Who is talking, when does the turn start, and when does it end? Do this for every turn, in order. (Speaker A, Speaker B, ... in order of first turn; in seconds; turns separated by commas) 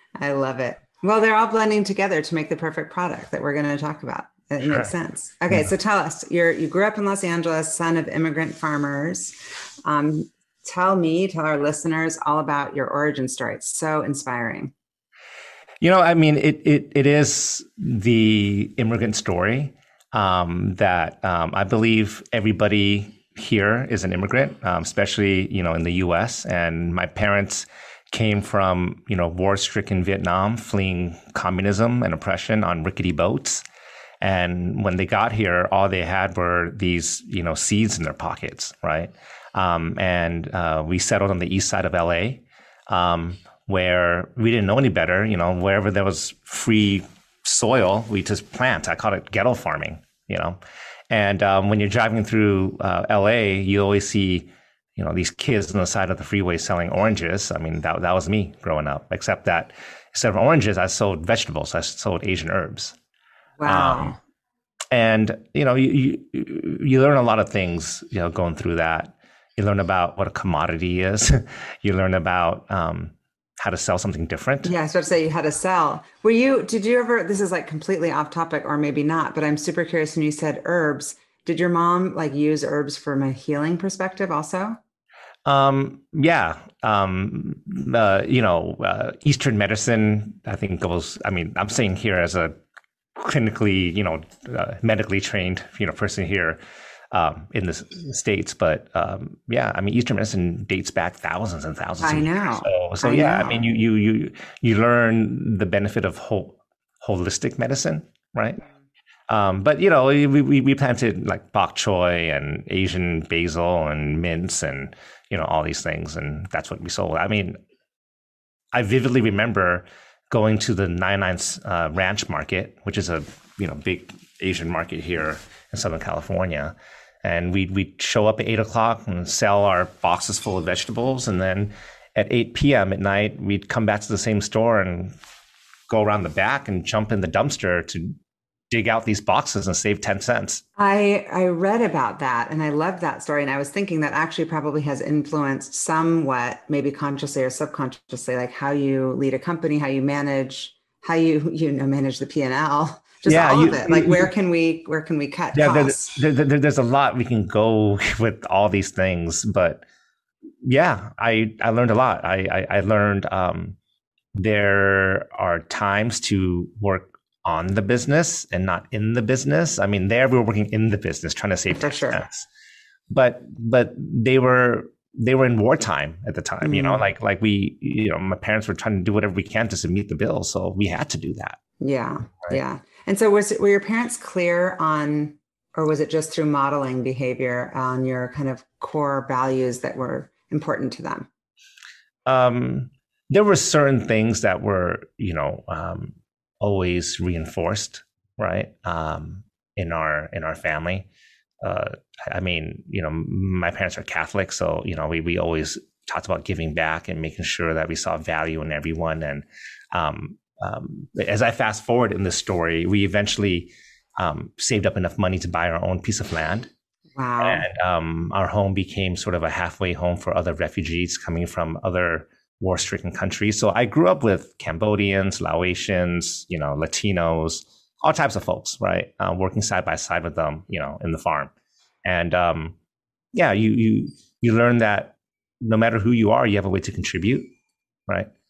Speaker A: 0.2-14.7, Speaker B: 4.6-4.9, Speaker B: 15.8-33.6, Speaker B: 34.2-50.6, Speaker B: 51.1-63.0, Speaker A: 63.6-64.2, Speaker B: 63.6-64.1, Speaker B: 64.9-74.7, Speaker A: 74.6-84.8, Speaker B: 85.4-92.5, Speaker B: 93.2-96.6, Speaker B: 97.1-108.6, Speaker A: 102.0-103.6, Speaker B: 109.3-117.5, Speaker B: 118.7-135.2, Speaker B: 135.9-138.2, Speaker B: 138.7-140.6, Speaker A: 140.8-156.2, Speaker B: 153.2-154.3, Speaker B: 155.5-159.8, Speaker B: 160.6-163.8, Speaker B: 164.3-172.5, Speaker A: 171.8-172.2, Speaker B: 173.1-181.6, Speaker A: 176.6-177.0, Speaker A: 181.8-191.3, Speaker B: 192.2-201.1, Speaker B: 201.6-216.7, Speaker A: 217.2-217.6, Speaker B: 217.4-231.5, Speaker B: 232.1-232.8, Speaker B: 233.3-237.5